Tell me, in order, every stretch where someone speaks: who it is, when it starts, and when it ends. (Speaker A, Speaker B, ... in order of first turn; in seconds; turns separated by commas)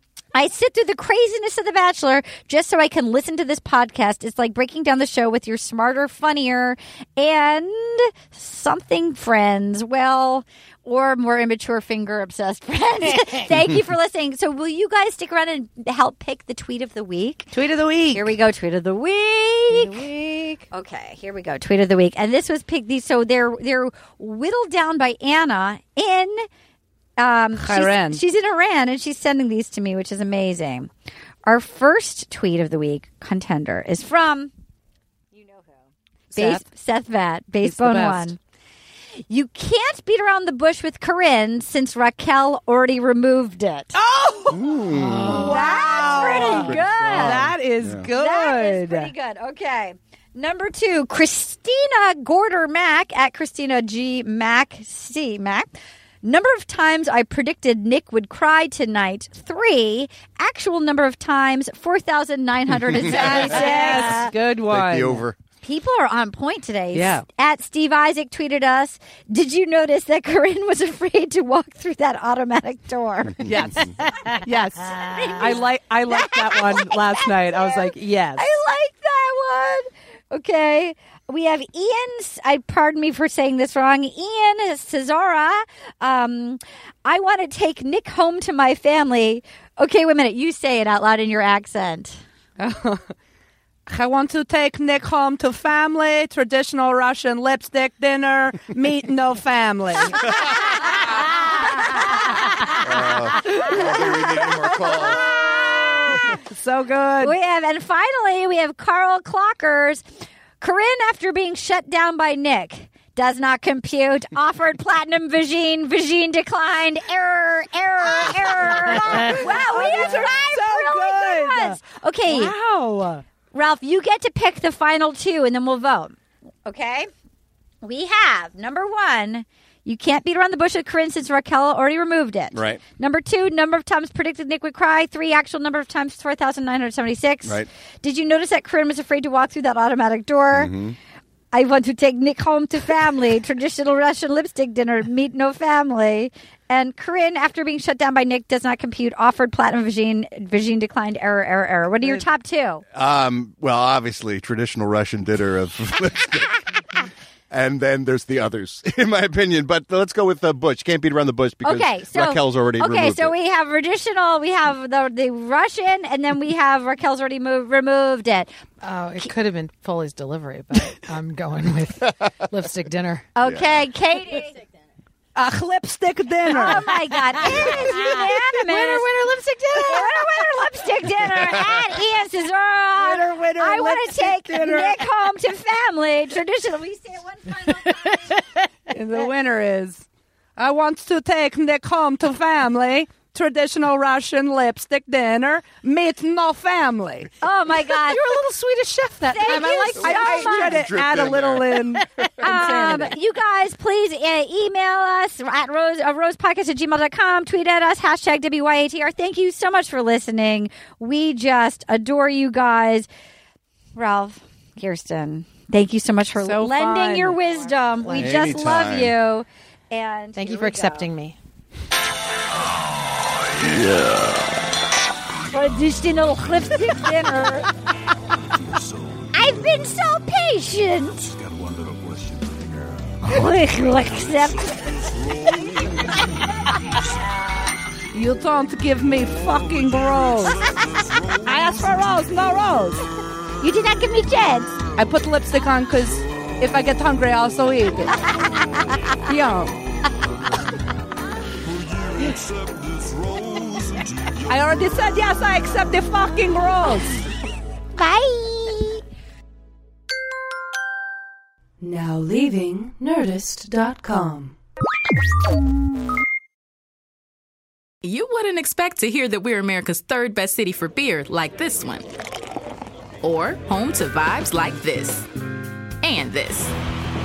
Speaker A: 0.3-17.5, Speaker B: 17.5-18.3, Speaker A: 18.1-26.5, Speaker B: 19.7-20.1, Speaker A: 27.2-30.9, Speaker B: 27.6-28.2, Speaker A: 31.4-34.5, Speaker B: 36.3-36.6, Speaker A: 36.3-38.4, Speaker B: 37.6-38.4, Speaker A: 39.3-44.0, Speaker B: 44.0-49.1, Speaker C: 44.5-45.5, Speaker A: 45.3-47.4, Speaker C: 46.4-48.1, Speaker A: 48.1-55.7, Speaker A: 56.2-64.3, Speaker B: 63.0-65.2, Speaker C: 63.0-65.4, Speaker A: 65.6-73.8, Speaker B: 66.9-67.2, Speaker B: 73.5-78.5, Speaker D: 74.9-75.3, Speaker A: 75.0-92.2, Speaker B: 92.6-93.1, Speaker B: 93.9-100.4, Speaker A: 101.6-106.3, Speaker C: 102.8-106.2, Speaker B: 103.4-104.0, Speaker B: 106.1-107.3, Speaker A: 107.2-110.0, Speaker A: 110.6-122.5, Speaker B: 118.2-123.2, Speaker A: 123.5-127.1, Speaker A: 127.8-140.7, Speaker C: 132.5-132.8, Speaker C: 140.5-141.0, Speaker A: 141.5-152.8, Speaker C: 152.9-163.3, Speaker A: 161.6-168.5, Speaker D: 168.8-173.3, Speaker A: 173.3-174.6, Speaker C: 173.4-173.7, Speaker B: 175.3-176.9, Speaker A: 176.5-179.1, Speaker C: 177.5-178.0, Speaker D: 177.7-180.3, Speaker A: 179.8-188.4, Speaker B: 183.0-185.0, Speaker B: 188.9-190.1, Speaker B: 190.6-197.3, Speaker A: 197.4-198.2, Speaker D: 198.1-200.7, Speaker A: 199.3-200.8, Speaker B: 199.5-203.2, Speaker C: 200.7-201.8, Speaker A: 202.4-213.1, Speaker A: 214.0-221.1, Speaker B: 216.4-217.4, Speaker C: 218.2-219.2, Speaker D: 220.4-221.4, Speaker C: 223.6-224.4, Speaker A: 225.4-227.7, Speaker A: 229.3-231.3, Speaker A: 233.2-235.1, Speaker B: 238.1-243.0, Speaker A: 243.6-244.8, Speaker B: 245.0-248.2, Speaker A: 248.3-249.2, Speaker B: 249.2-249.8, Speaker B: 252.2-252.5, Speaker B: 254.4-257.2, Speaker A: 257.9-259.0, Speaker B: 261.8-264.6, Speaker E: 268.0-272.1, Speaker E: 273.2-275.3, Speaker E: 276.0-276.8